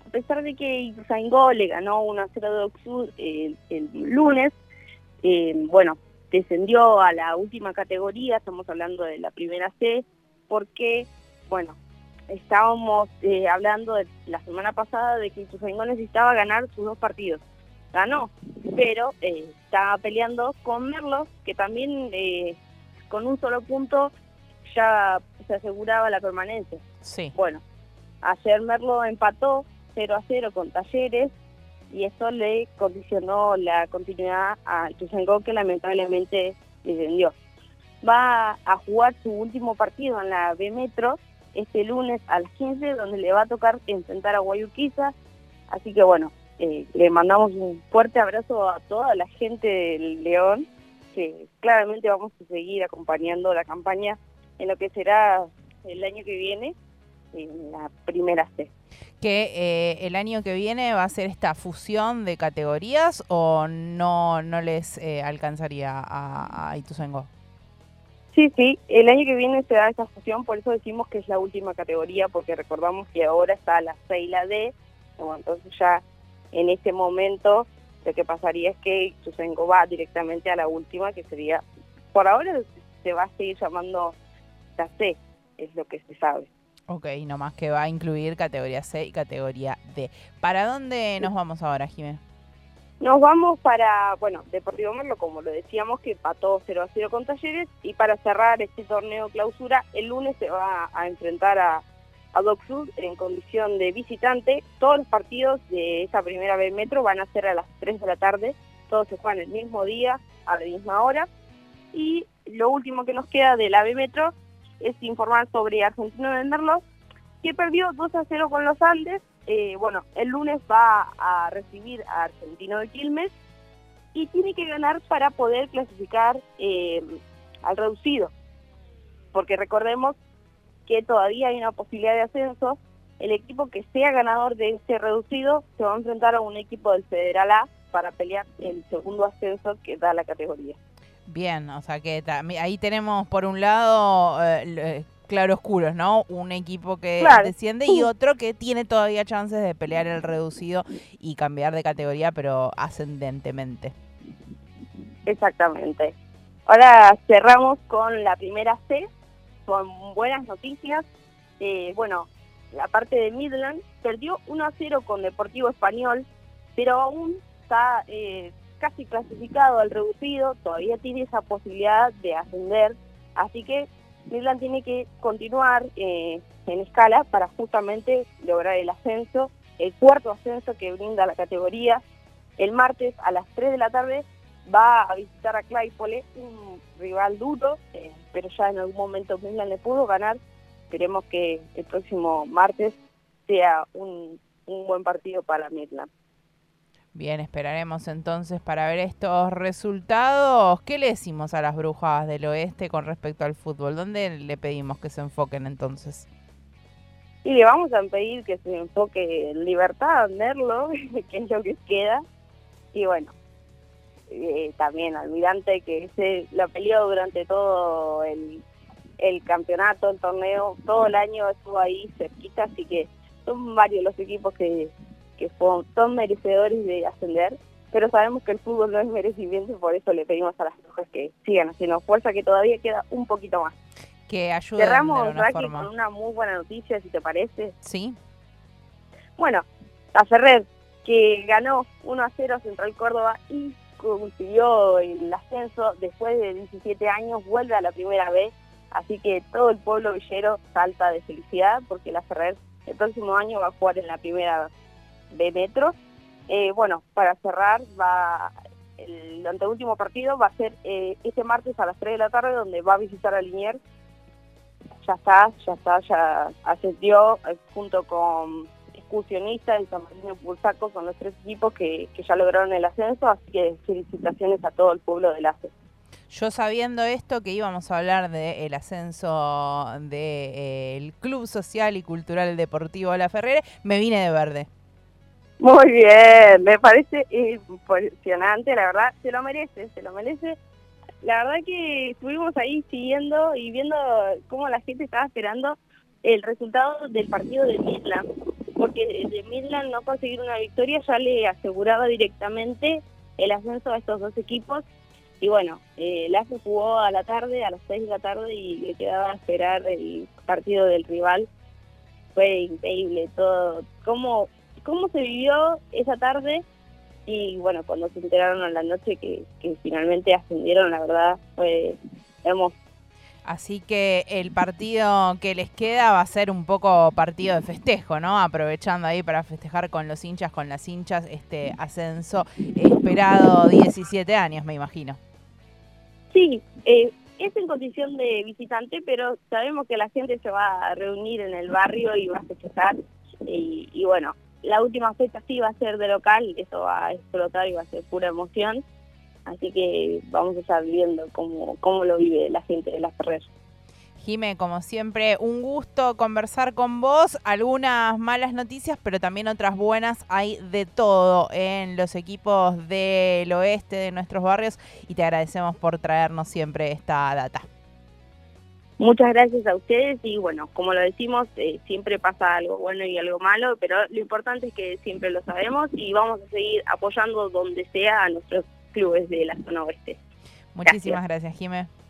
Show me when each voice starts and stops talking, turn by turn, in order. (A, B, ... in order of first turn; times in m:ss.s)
0:00.1-0:04.6 A
0:05.2-0:11.8 A
0:12.3-0:22.6 A
0:23.1-0:24.1 A
0:24.6-0:27.6 A
0:27.0-0:27.3 B
0:28.2-0:31.3 A
0:31.9-0:37.3 A
0:38.0-0:45.1 A
0:45.7-0:56.8 A
0:57.3-0:58.7 A
0:59.2-1:07.3 B
1:08.3-1:24.2 A
1:24.8-1:26.5 A
1:26.9-1:32.2 B
1:33.0-1:51.3 A
1:51.9-1:56.8 A
1:57.4-2:03.3 A
2:04.1-2:08.3 A
2:09.3-2:10.2 A
2:10.9-2:20.8 A
2:21.2-2:33.9 B
2:27.2-2:28.1 A
2:35.2-2:36.1 A
2:36.7-2:39.1 A
2:39.7-2:41.0 A
2:41.6-3:02.0 A
3:02.6-3:16.1 A
3:17.1-3:26.3 B
3:27.4-3:32.2 A
3:32.9-3:33.3 A
3:34.3-3:38.6 A
3:39.2-3:53.8 A
3:54.3-3:55.9 B
3:54.8-3:57.7 A
3:57.8-3:58.2 B
3:59.4-4:14.7 A
4:15.3-4:16.0 A
4:16.5-4:23.8 A
4:25.0-4:35.7 A
4:36.3-4:44.7 B
4:45.6-4:50.6 A
4:51.2-5:04.8 A
5:05.4-5:11.5 A
5:12.3-5:16.6 A
5:17.2-5:22.8 A
5:23.4-5:35.2 B
5:36.3-5:48.8 A
5:49.4-5:53.5 A
5:54.2-6:07.6 B
6:09.0-6:20.2 A
6:20.7-6:21.9 B
6:20.8-6:21.2 A